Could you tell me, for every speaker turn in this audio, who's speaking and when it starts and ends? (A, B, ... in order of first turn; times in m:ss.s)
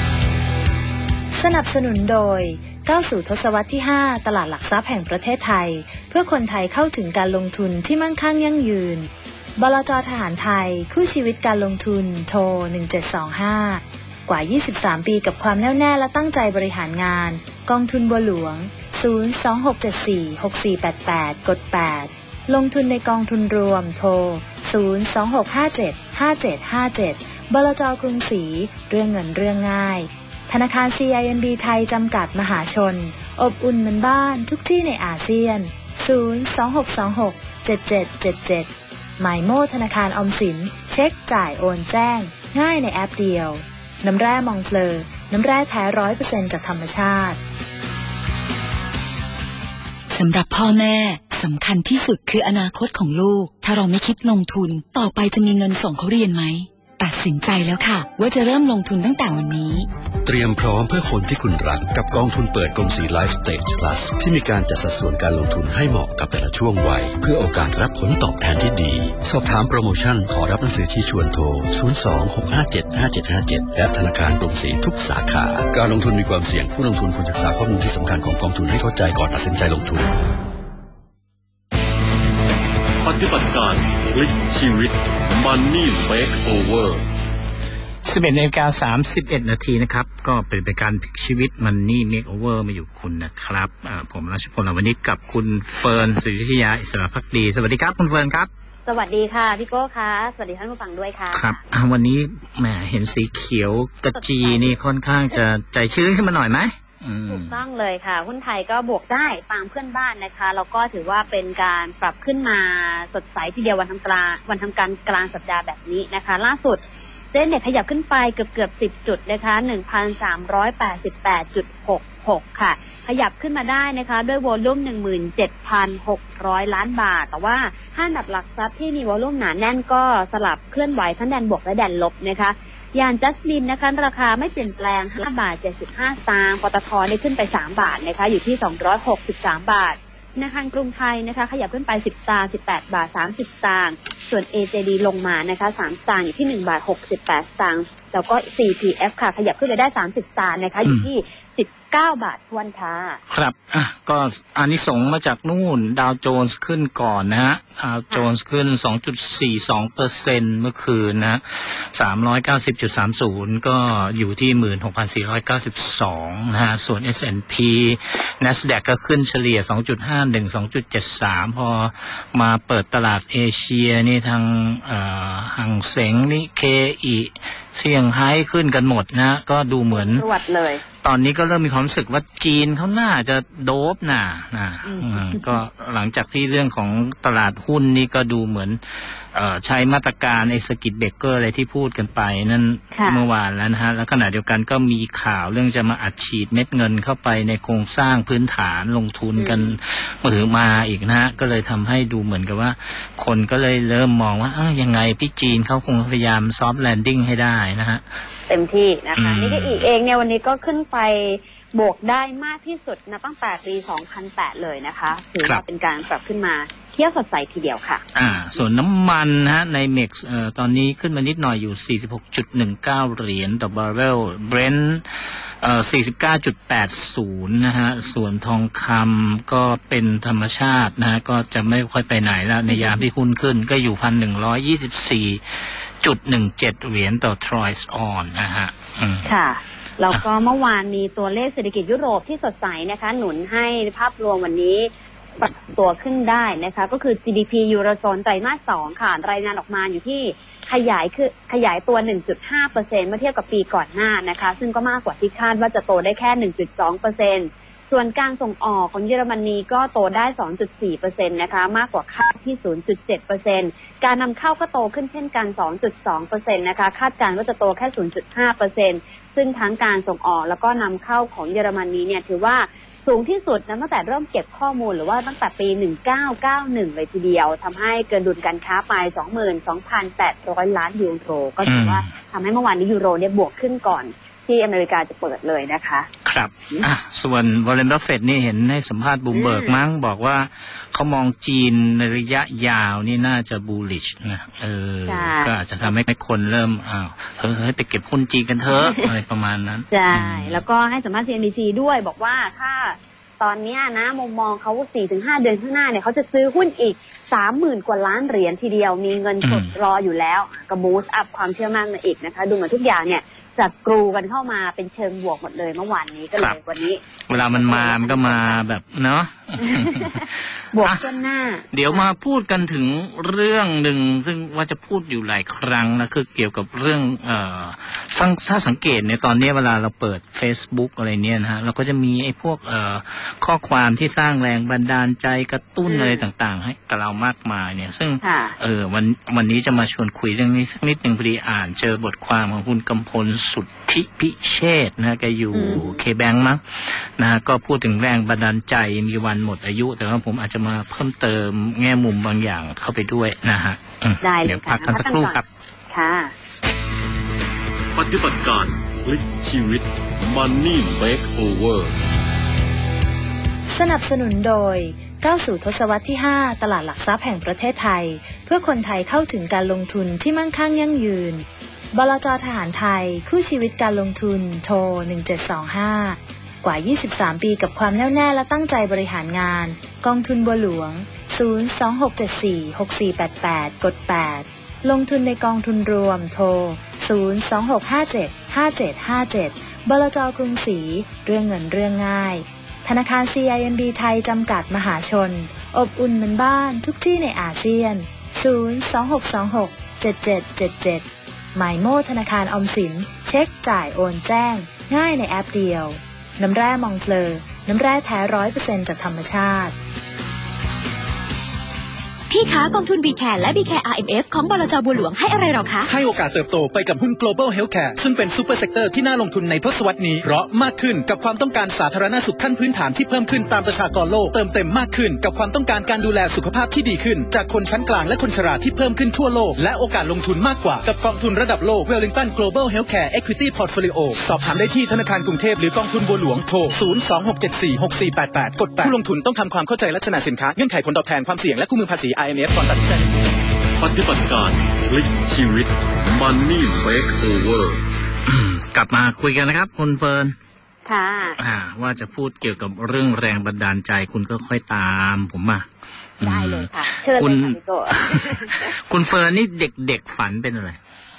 0:01.3-0:47.4 A
0:50.1-0:59.9 B
1:00.2-1:20.1 C
1:23.0-1:27.0 D
1:28.0-1:38.5 E
1:38.9-1:41.6 F
1:41.3-1:47.6 E
1:44.2-1:44.8 F
1:47.3-1:56.8 F
1:57.3-2:33.2 F
2:33.3-3:00.3 E
2:59.9-3:00.8 F
3:01.0-3:28.0 E
3:04.8-3:05.6 F
3:12.9-3:13.2 F
3:19.4-3:19.8 F
3:28.5-3:38.0 F
3:29.2-3:29.9 E
3:38.2-3:45.0 E
3:45.6-3:59.3 E
3:52.7-3:53.0 F
3:59.2-4:46.1 F
4:41.6-4:42.1 E
4:46.2-5:00.6 E
4:49.3-4:49.8 F
4:55.1-4:55.9 F
4:58.8-4:59.1 F
4:59.9-5:18.6 F
5:09.4-5:09.7 E
5:17.3-5:21.0 E
5:19.6-5:22.1 F
5:21.7-5:55.4 E
5:35.9-5:36.2 F
5:38.2-5:38.6 F
5:45.5-5:46.0 F
5:54.2-5:56.3 F
5:58.0-6:01.9 D
6:03.7-6:49.8 A
6:52.3-6:55.9 G
6:55.9-7:23.1 H
7:23.8-7:27.8 D
7:28.3-7:30.4 E
7:30.9-7:31.4 F
7:31.4-7:35.7 E
7:36.2-7:40.8 E
7:36.2-7:38.7 F